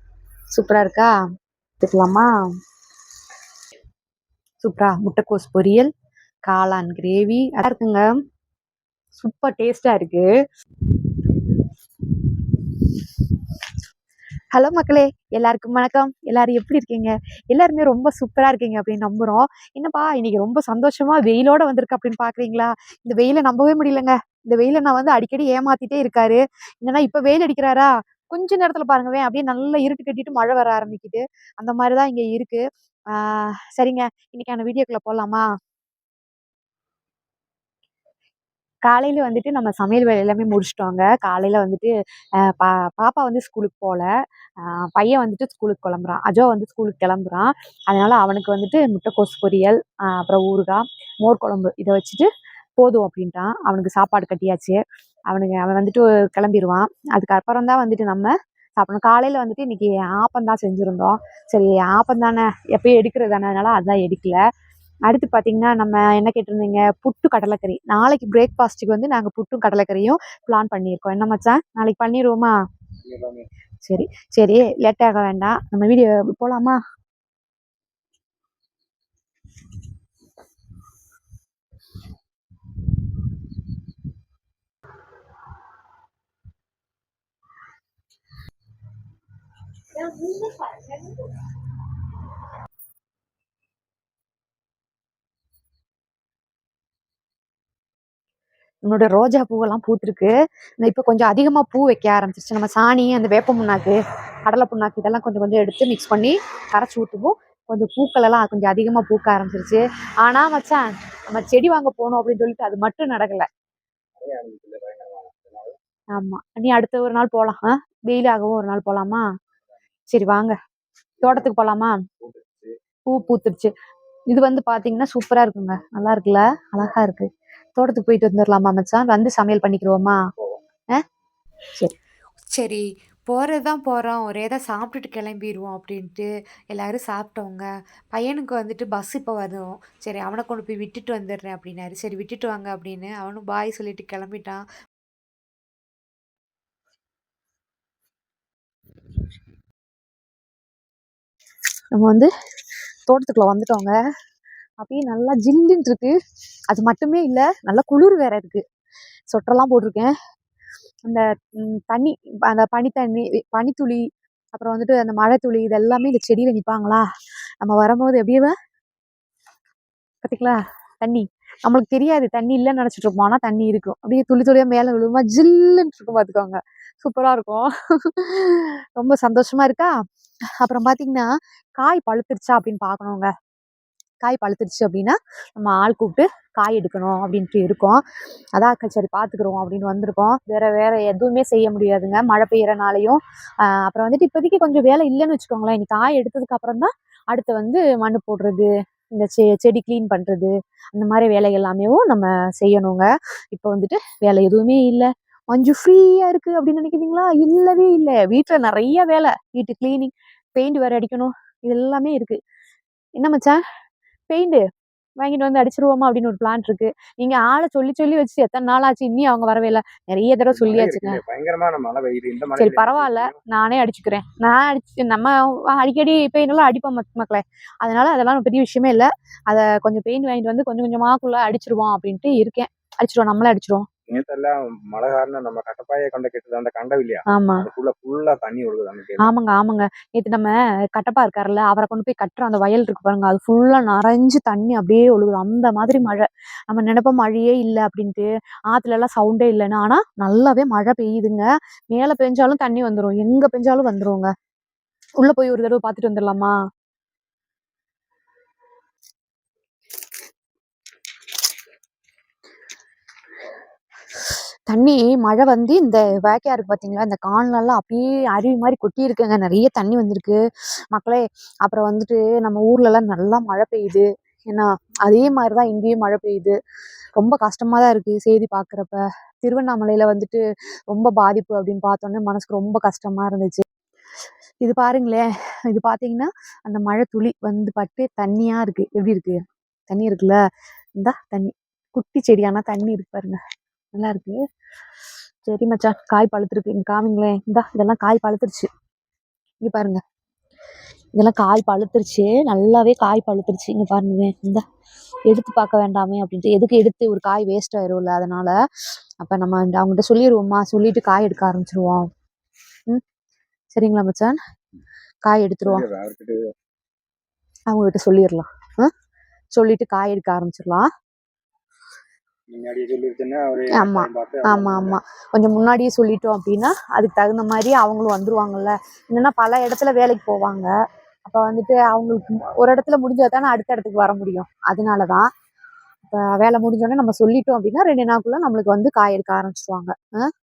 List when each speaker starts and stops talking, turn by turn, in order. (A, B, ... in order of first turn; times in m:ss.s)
0:00.5-0:01.1 A
0:01.8-0:02.3 A
0:04.6-0:05.9 A
0:06.5-0:08.1 A
0:09.2-0:10.3 A
0:14.5-0:35.4 A
0:38.9-0:44.1 A
0:44.6-0:52.3 A
0:52.8-0:54.8 A
0:55.3-1:04.4 A
1:05.1-1:12.5 A
1:13.1-1:13.4 B
1:13.8-1:16.8 A
1:38.8-1:53.5 A
1:54.2-1:55.8 B
1:56.1-1:59.2 A
2:00.1-2:00.5 A
2:01.2-2:01.5 B
2:01.2-2:02.0 A
2:02.2-2:02.7 B
2:03.1-2:03.7 A
2:04.3-2:10.2 A
2:12.5-2:24.6 C
2:31.9-2:32.3 A
2:33.1-2:34.0 A
2:34.8-2:36.1 A
2:36.7-2:38.6 A
2:39.3-2:40.1 A
2:41.1-2:44.0 A
2:44.5-2:47.0 A
2:47.6-2:48.5 A
2:50.2-2:59.9 A
3:00.6-3:03.3 A
3:04.2-3:08.0 A
3:08.6-3:32.4 A
3:33.2-3:33.6 A
3:34.3-3:34.6 A
3:35.2-3:41.2 A
3:40.5-3:43.4 B
3:42.6-3:53.9 A
3:54.1-3:59.3 B
3:57.3-3:57.6 A
3:59.2-4:14.3 A
4:15.2-4:16.6 A
4:24.7-4:30.4 A
4:30.9-4:36.6 A
4:37.2-4:43.6 A
4:44.6-4:49.4 A
4:49.9-4:50.4 A
4:51.0-4:53.4 A
4:53.9-4:54.4 A
4:55.5-4:58.7 A
4:59.6-5:00.0 A
5:01.2-5:04.6 A
5:05.3-5:08.5 A
5:09.2-5:12.1 A
5:13.7-5:14.4 A
5:15.2-5:15.8 A
5:15.6-5:16.4 B
5:17.7-5:18.9 A
5:19.6-5:20.9 A
5:22.5-5:25.0 B
5:23.7-5:30.7 A
5:31.2-5:35.2 A
5:36.0-5:40.3 A